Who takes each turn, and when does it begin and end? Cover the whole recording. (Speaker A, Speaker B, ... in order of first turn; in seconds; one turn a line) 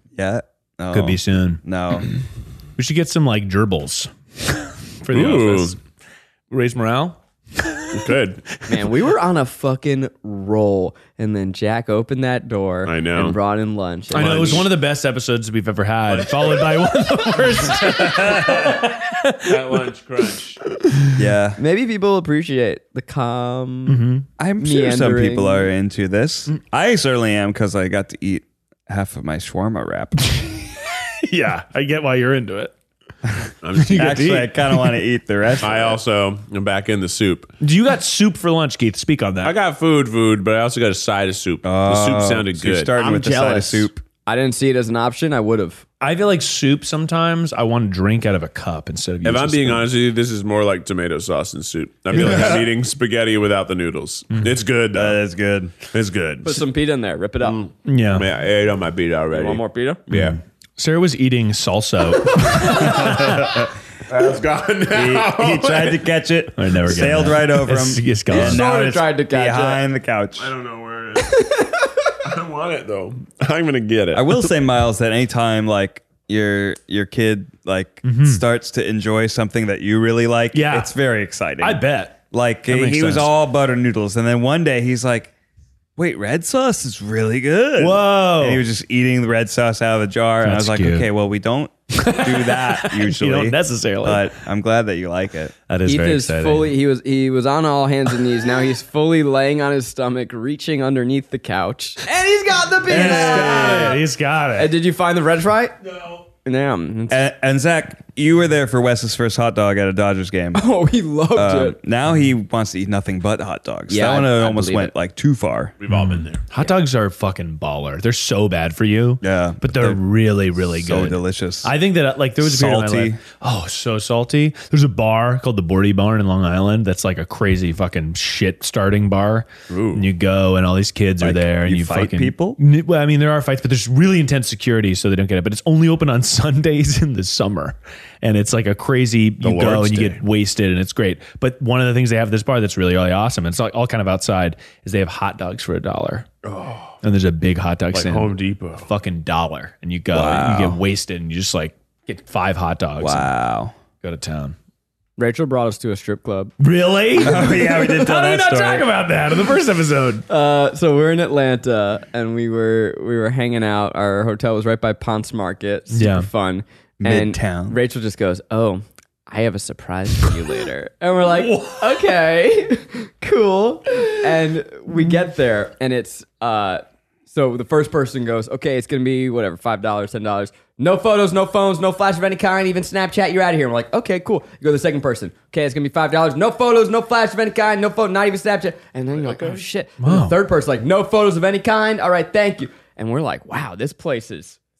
Speaker A: 0.1-2.1
Speaker B: 0.9-1.6
Speaker B: 2.8-5.8
Speaker C: 5.1-5.8
Speaker B: 6.5-8.0
Speaker C: 7.9-8.4
Speaker D: 8.7-14.6
Speaker C: 12.8-13.4
Speaker C: 14.1-14.7
Speaker B: 14.1-19.8
Speaker C: 16.1-16.9
Speaker C: 18.1-18.5
Speaker C: 19.4-20.6
Speaker A: 21.1-21.6
Speaker D: 21.6-24.0
Speaker B: 23.9-24.2
Speaker A: 24.4-30.4
Speaker D: 24.6-25.7
Speaker B: 31.2-32.7
Speaker C: 33.6-34.5
Speaker B: 33.8-34.9
Speaker A: 33.9-36.0
Speaker C: 35.6-37.5
Speaker B: 37.6-39.6
Speaker C: 39.4-43.1
Speaker A: 41.6-44.0
Speaker D: 43.0-45.8
Speaker B: 46.0-49.9
Speaker C: 49.2-55.2
Speaker B: 52.1-52.6
Speaker A: 52.1-52.7
Speaker A: 54.9-55.9
Speaker C: 55.9-56.6
Speaker D: 56.4-57.6
Speaker C: 57.4-60.4
Speaker B: 57.8-58.2
Speaker D: 59.3-60.0
Speaker B: 60.8-63.4
Speaker C: 62.5-63.3
Speaker A: 62.6-63.7
Speaker C: 64.1-66.0
Speaker A: 64.9-70.5
Speaker B: 66.5-68.6
Speaker D: 68.3-69.8
Speaker C: 70.4-71.5
Speaker D: 71.2-72.1
Speaker C: 72.2-74.5
Speaker A: 74.1-85.3
Speaker B: 78.0-78.4
Speaker B: 80.5-80.9
Speaker B: 81.6-83.3
Speaker A: 86.0-95.5
Speaker B: 87.8-88.6
Speaker B: 90.4-91.1
Speaker B: 91.9-94.3
Speaker B: 95.7-96.8
Speaker D: 95.8-104.0
Speaker B: 102.8-104.7
Speaker A: 102.9-104.0
Speaker D: 104.5-105.8
Speaker D: 106.4-107.3
Speaker A: 107.1-110.6
Speaker D: 110.5-111.8
Speaker A: 111.3-115.7
Speaker D: 113.9-114.9
Speaker C: 115.8-116.4
Speaker B: 115.9-146.3
Speaker A: 119.2-120.0
Speaker A: 120.5-121.7
Speaker A: 122.4-123.2
Speaker C: 129.7-130.1
Speaker A: 131.2-132.6
Speaker C: 139.4-140.2
Speaker C: 146.4-146.9
Speaker B: 147.0-153.3
Speaker C: 147.9-148.9
Speaker A: 150.1-150.8
Speaker A: 153.0-153.7
Speaker B: 154.0-154.6
Speaker D: 155.2-156.5
Speaker B: 156.6-160.2
Speaker A: 157.2-158.9
Speaker D: 160.3-194.6
Speaker B: 165.9-166.3
Speaker A: 167.0-167.8
Speaker B: 171.5-171.8
Speaker C: 189.2-189.6
Speaker B: 190.0-190.3